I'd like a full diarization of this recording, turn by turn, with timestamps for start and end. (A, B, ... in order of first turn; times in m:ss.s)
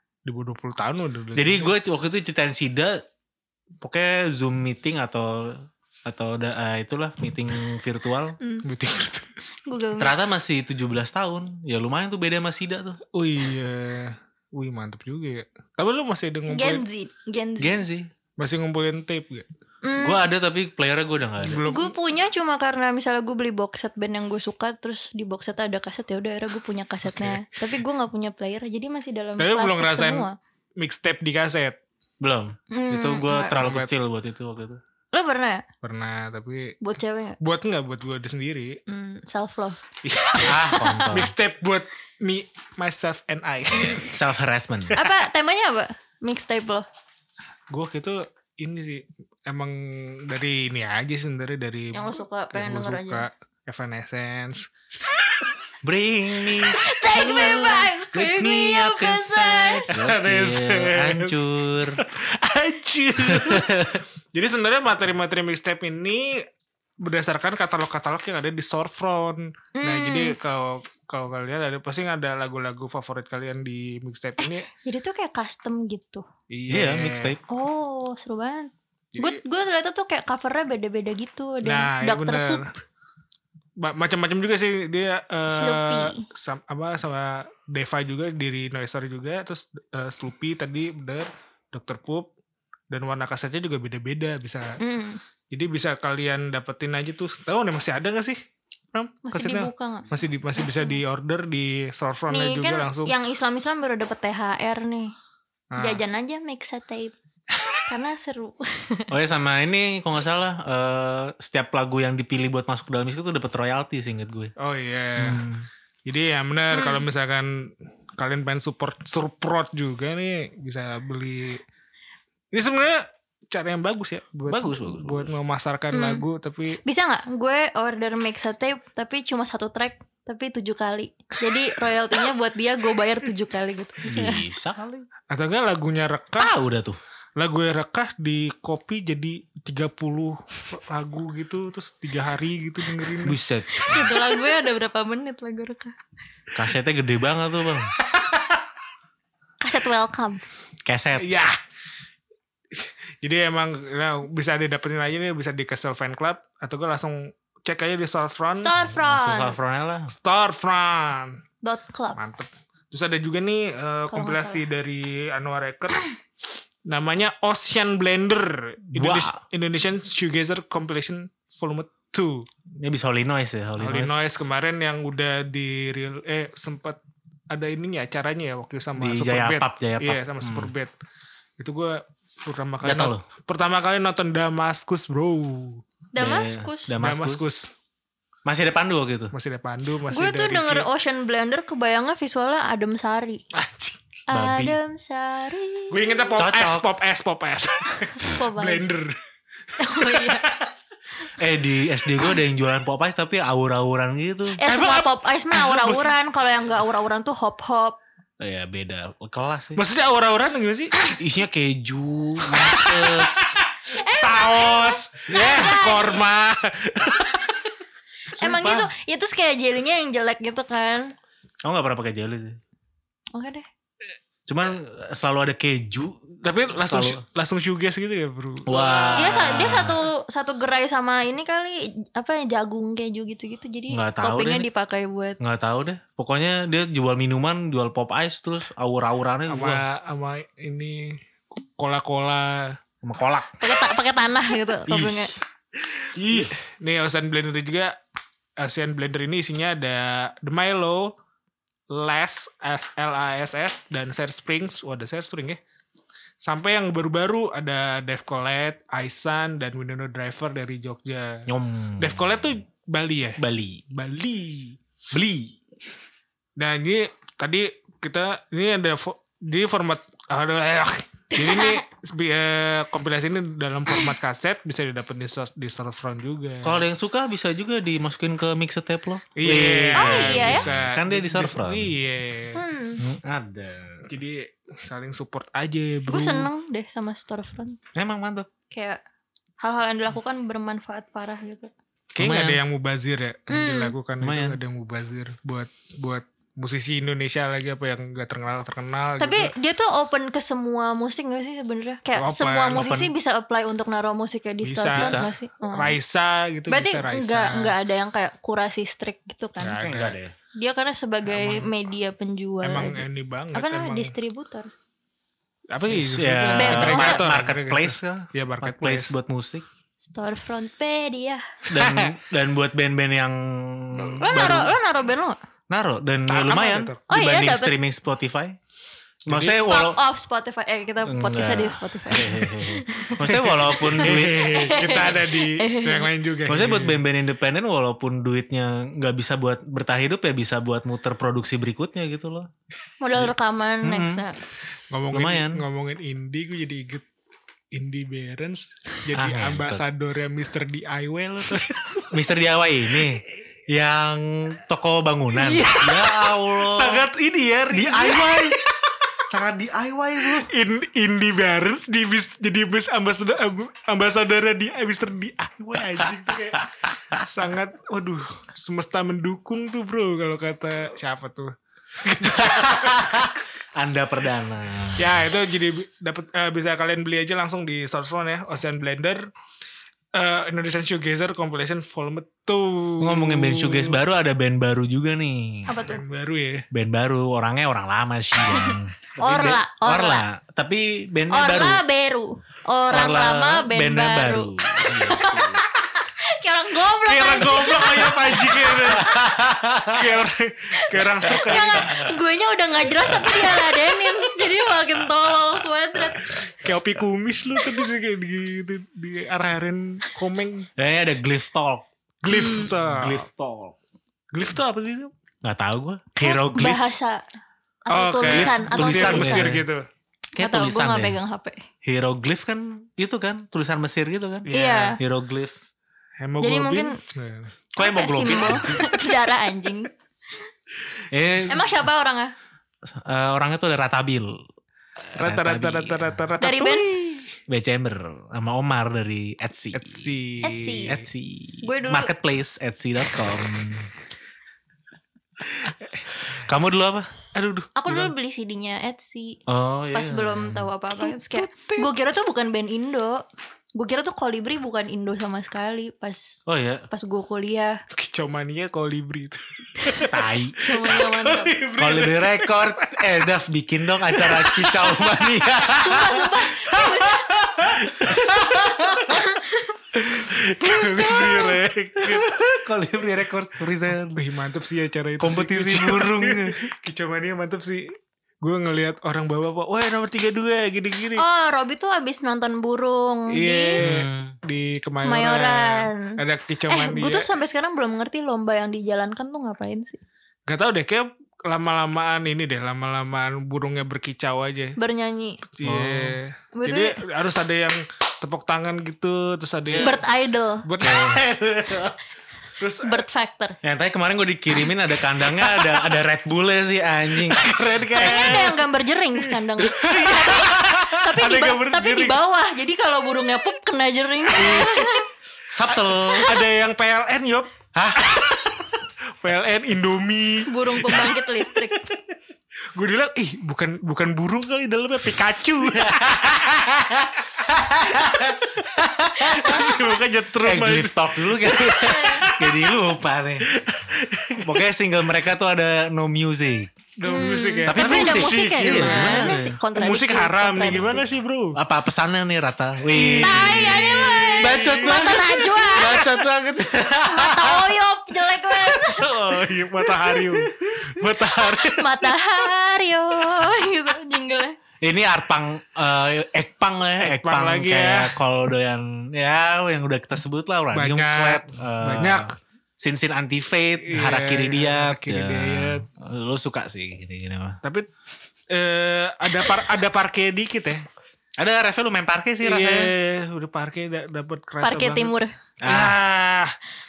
0:00.2-0:01.7 A
0:01.3-0:03.0 B
0:03.8-0:08.4 B
0:08.6-0:09.3 A
0:09.6-0:10.2 C
0:10.0-0:13.0 B
0:13.1-0:16.8 A
0:16.5-0:17.8 C
0:17.6-0:18.1 B
0:18.4-0:19.4 A
0:19.8-0:20.2 C
0:20.0-0:21.7 B
0:21.4-0:21.9 A
0:21.7-0:30.3 C
0:27.1-0:27.4 A
0:29.4-0:30.3 A
0:30.8-0:31.8 A
0:32.2-0:34.8 B
0:32.7-0:33.6 C
0:33.3-0:33.9 A
0:35.1-0:35.6 C
0:35.8-0:36.8 A
0:36.8-0:37.4 C
0:37.4-0:38.8 A
0:38.9-0:39.8 C
0:40.0-0:44.1 A
0:40.4-0:41.3 B
0:40.4-0:41.3 C
0:43.8-0:44.0 C
0:43.8-0:45.0 B
0:44.9-0:46.8 C
0:47.7-0:54.7 A
0:51.9-0:53.3 C
0:55.8-1:02.0 B
0:56.5-0:59.9 C
0:59.9-1:01.3 A
1:02.0-1:03.7 A
1:03.2-1:04.0 B
1:04.3-1:06.4 A
1:07.0-1:14.7 A
1:09.8-1:10.3 C
1:14.4-1:16.2 C
1:16.5-1:17.3 A
1:16.7-1:17.4 B
1:17.5-1:22.6 C
1:19.1-1:19.4 A
1:21.6-1:22.6 A
1:23.8-1:32.3 A
1:25.5-1:26.2 C
1:32.9-1:34.8 A
1:34.8-1:35.2 C
1:35.5-1:38.4 A
1:38.9-1:43.1 A
1:39.2-1:41.0 C
1:42.3-1:45.1 C
1:45.7-1:46.0 A
1:45.8-1:47.1 C
1:47.9-1:49.1 C
1:49.1-1:54.5 B
1:54.6-1:55.4 A
1:55.2-1:55.7 B
1:56.0-2:01.6 A
1:56.7-1:57.0 C
2:02.5-2:06.8 A
2:04.5-2:05.3 B
2:05.9-2:06.2 C
2:06.8-2:14.4 C
2:14.0-2:15.0 B
2:15.3-2:16.5 A
2:16.4-2:17.0 B
2:17.4-2:23.4 A
2:23.2-2:24.1 B
2:23.7-2:25.9 C
2:26.5-2:27.9 B
2:29.6-2:30.4 C
2:30.8-2:31.3 B
2:31.2-2:31.6 A
2:32.7-2:38.7 A
2:38.6-2:39.6 C
2:38.9-2:40.1 B
2:40.1-2:41.4 A
2:41.6-2:42.2 C
2:42.1-2:46.1 A
2:44.1-2:44.6 C
2:46.8-2:52.5 A
2:48.9-2:49.4 B
2:52.8-2:54.5 B
2:53.8-2:57.0 A
2:57.5-3:00.9 A
2:59.0-3:00.7 B
3:01.6-3:05.8 A
3:02.8-3:03.2 B
3:06.1-3:06.9 C
3:06.2-3:07.4 B
3:07.0-3:07.7 A
3:08.4-3:09.3 B
3:09.3-3:10.9 A
3:10.1-3:13.4 C
3:13.5-3:14.0 A
3:14.3-3:16.4 C
3:14.3-3:14.8 B
3:15.9-3:19.2 A
3:16.4-3:16.8 B
3:18.2-3:18.9 C
3:19.8-3:20.4 C
3:19.8-3:20.7 A
3:21.4-3:24.6 B
3:24.6-3:28.0 C
3:24.6-3:26.1 A
3:28.4-3:29.8 B
3:29.8-3:30.9 A
3:31.2-3:33.6 B
3:32.5-3:37.6 A
3:33.9-3:36.2 C
3:35.3-3:35.7 B
3:38.3-3:41.1 C
3:38.4-3:38.9 B
3:41.6-3:42.6 B
3:43.3-3:43.6 C
3:44.5-3:47.2 B
3:46.4-3:49.7 A
3:48.7-3:50.0 B
3:49.1-3:55.4 C
3:53.9-3:54.7 B
3:55.4-3:59.8 B
3:59.5-4:02.8 A
4:03.0-4:03.5 B
4:03.6-4:05.3 C
4:04.9-4:05.3 B
4:06.0-4:08.0 A
4:08.6-4:11.1 A
4:11.9-4:15.6 A
4:16.4-4:21.5 A
4:21.5-4:22.4 B
4:22.0-4:23.4 A
4:23.4-4:23.8 B
4:23.9-4:24.8 A
4:25.1-4:25.5 B
4:26.6-4:36.8 A
4:31.3-4:31.8 C
4:36.6-4:41.9 B
4:39.4-4:42.6 A
4:40.0-4:40.7 C
4:42.5-4:43.0 C
4:43.0-4:44.1 B
4:44.1-4:46.5 A
4:46.1-4:47.8 C
4:47.9-4:48.5 B
4:48.7-4:49.0 C
4:49.6-4:51.7 C
4:52.1-4:59.5 A
4:52.2-4:52.6 B
4:53.5-4:53.9 C
4:54.2-4:54.6 B
4:59.2-5:05.9 C
5:02.2-5:02.8 A
5:02.7-5:03.1 B
5:04.6-5:07.7 A
5:04.9-5:05.3 B
5:06.7-5:09.9 C
5:09.6-5:10.2 A
5:09.8-5:10.3 B
5:10.6-5:14.7 C
5:11.3-5:11.7 A
5:12.6-5:14.1 A
5:15.7-5:19.1 A
5:15.9-5:19.6 B
5:16.5-5:17.2 C
5:20.0-5:21.5 C
5:21.7-5:22.1 A
5:21.7-5:24.8 B
5:24.2-5:25.4 C
5:25.7-5:28.6 B
5:26.3-5:27.0 A
5:27.1-5:27.7 C
5:29.2-5:30.0 B
5:29.3-5:29.6 A
5:29.5-5:36.1 C
5:31.0-5:35.1 B
5:33.2-5:37.0 A
5:36.5-5:42.5 B
5:43.0-5:44.4 C
5:43.8-5:44.2 B
5:44.9-5:47.0 A
5:45.1-5:45.6 B
5:47.7-5:52.1 A
5:49.1-5:49.8 B
5:52.1-5:57.0 B
5:55.3-5:58.7 A
5:57.7-5:58.6 B
5:59.3-6:00.5 B
6:00.2-6:13.0 A
6:06.6-6:07.2 B
6:12.2-6:15.2 B
6:15.0-6:19.3 A
6:20.1-6:24.0 A
6:23.0-6:25.8 B
6:25.6-6:26.0 C
6:25.9-6:26.7 A
6:26.7-6:31.8 B
6:28.5-6:30.2 C
6:31.3-6:39.2 C
6:32.9-6:35.6 B
6:37.0-6:39.1 A
6:38.8-6:40.1 B
6:39.9-6:42.0 A
6:40.8-6:46.5 C
6:41.6-6:42.1 B
6:43.1-6:43.4 B
6:46.5-6:50.7 A
6:50.8-6:51.8 B
6:52.2-6:53.3 A
6:52.3-6:52.7 C
6:52.4-6:53.8 B
6:54.3-6:55.1 A
6:55.4-6:57.0 B
6:56.2-6:57.2 C
6:57.9-6:59.5 C
6:57.9-6:59.8 A
6:58.2-6:59.6 B
7:00.4-7:01.2 B
7:00.4-7:01.6 C
7:01.8-7:05.6 B
7:04.4-7:05.0 A
7:04.5-7:05.0 C
7:06.2-7:07.5 A
7:06.4-7:07.0 C
7:07.7-7:09.0 B
7:07.8-7:09.9 C
7:11.1-7:11.7 B
7:11.5-7:12.3 C
7:12.8-7:14.4 B
7:15.1-7:16.3 B
7:15.2-7:17.3 A
7:16.4-7:16.9 C
7:17.5-7:20.0 B
7:19.7-7:21.0 A
7:20.4-7:20.9 C
7:20.9-7:23.9 B
7:21.6-7:22.1 C
7:26.2-7:27.1 B
7:27.3-7:28.1 A
7:27.8-7:29.4 C
7:29.5-7:30.7 B
7:29.9-7:33.2 C
7:31.0-7:31.9 A
7:33.7-7:37.8 C
7:36.5-7:36.8 B
7:37.9-7:43.0 A
7:40.1-7:40.6 B
7:40.6-7:41.5 C
7:41.8-7:46.4 B
7:44.1-7:45.7 A
7:45.8-7:47.4 C
7:47.1-7:49.1 B
7:47.8-7:48.7 A
7:49.1-7:49.7 C
7:49.9-7:52.3 A
7:50.6-7:51.6 C
7:50.8-7:51.3 B
7:52.0-7:54.2 B
7:54.1-7:57.9 A
7:55.2-7:56.6 B
7:58.4-8:01.2 A
8:01.2-8:03.8 C
8:03.3-8:07.3 A
8:03.8-8:04.4 B
8:05.0-8:10.0 C
8:10.5-8:14.8 A
8:14.8-8:15.4 C
8:15.5-8:20.0 A
8:15.6-8:16.2 B
8:16.5-8:17.0 C
8:19.8-8:20.6 C
8:20.6-8:21.9 A
8:20.8-8:21.9 B
8:22.6-8:23.0 A
8:22.8-8:23.6 C
8:23.6-8:28.6 B
8:27.2-8:28.6 A
8:28.0-8:35.1 C
8:29.7-8:32.2 A
8:29.9-8:30.2 B
8:34.3-8:34.8 A
8:35.5-8:36.4 B
8:35.7-8:37.5 A
8:37.8-8:38.2 B
8:38.0-8:38.3 A
8:39.2-8:42.0 A
8:40.5-8:41.9 C
8:42.7-8:46.4 A
8:45.7-8:53.5 B
8:49.2-8:52.7 A
8:51.8-8:52.2 C
8:53.5-8:54.6 A
8:54.4-8:56.7 B
8:57.0-9:01.6 A
8:57.0-9:01.0 C
8:57.6-8:59.6 B
9:00.6-9:01.0 B
9:01.5-9:07.7 B
9:02.9-9:06.2 A
9:02.9-9:06.0 C
9:06.9-9:09.1 C
9:08.7-9:12.1 A
9:10.2-9:10.9 B
9:11.4-9:14.6 C
9:14.8-9:27.6 B
9:17.0-9:18.2 A
9:20.7-9:22.3 A
9:23.8-9:25.8 A
9:28.5-9:30.8 A
9:31.4-9:32.9 B
9:32.4-9:36.6 A
9:34.6-9:35.3 C
9:35.6-9:36.0 B